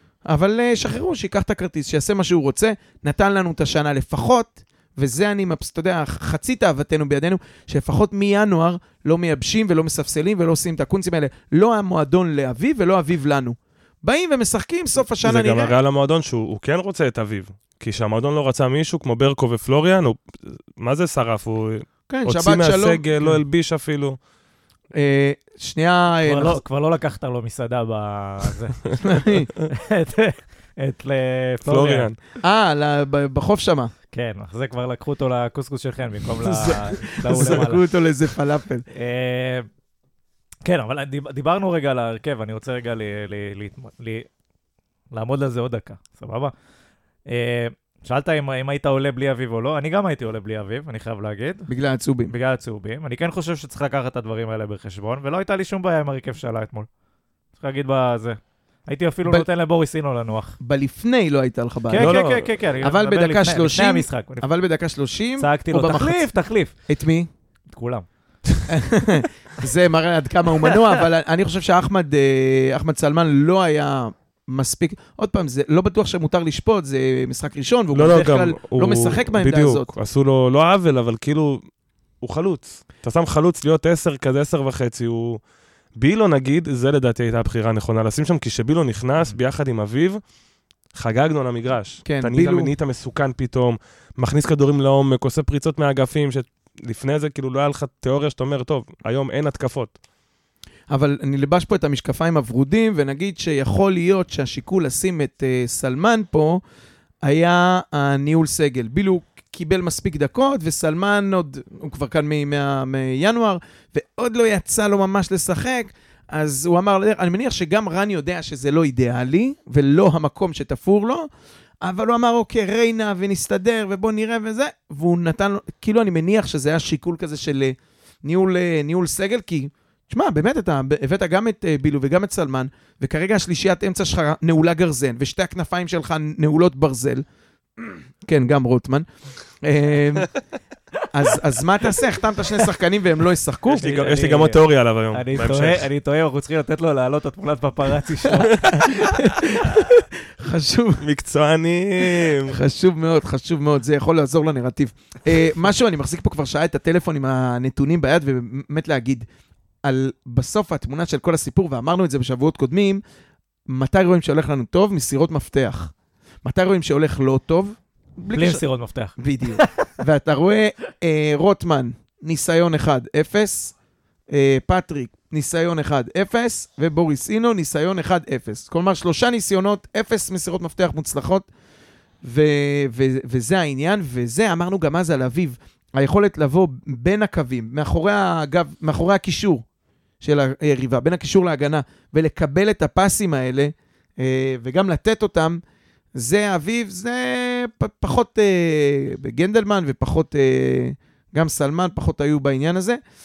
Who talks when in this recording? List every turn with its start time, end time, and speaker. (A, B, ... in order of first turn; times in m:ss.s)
0:00.3-0:15.8 A
0:15.2-0:24.2 B
0:22.1-0:23.4 A
0:25.0-0:26.6 A
0:26.2-0:32.1 C
0:29.0-0:29.5 A
0:31.7-0:32.2 B
0:32.4-0:33.9 A
0:34.1-0:37.8 C
0:36.4-0:38.9 A
0:38.9-0:39.7 C
0:40.6-0:44.3 C
0:45.1-0:46.5 C
0:47.3-0:51.7 C
0:51.7-0:52.3 A
0:52.3-0:56.9 C
0:57.6-1:00.6 C
1:00.6-1:02.2 A
1:01.9-1:04.5 C
1:02.0-1:02.5 B
1:02.8-1:06.3 A
1:05.4-1:06.7 C
1:06.9-1:07.3 A
1:07.7-1:08.1 C
1:08.7-1:19.9 A
1:10.6-1:11.0 C
1:17.9-1:21.6 B
1:22.2-1:25.4 B
1:26.0-1:30.2 B
1:30.9-1:40.0 B
1:32.0-1:32.7 A
1:40.9-1:46.6 A
1:47.2-2:01.3 A
2:01.8-2:17.2 A
2:17.8-2:19.1 A
2:19.6-2:20.3 A
2:21.1-2:23.9 A
2:23.7-2:29.2 C
2:23.7-2:25.9 B
2:28.4-2:31.0 A
2:31.0-2:32.6 B
2:32.0-2:39.3 A
2:39.8-2:43.0 A
2:43.7-2:45.9 A
2:46.4-2:48.6 A
2:48.3-2:49.9 C
2:49.2-2:53.8 A
2:54.3-3:01.5 A
3:02.2-3:09.6 A
3:10.2-3:15.6 A
3:16.2-3:23.0 A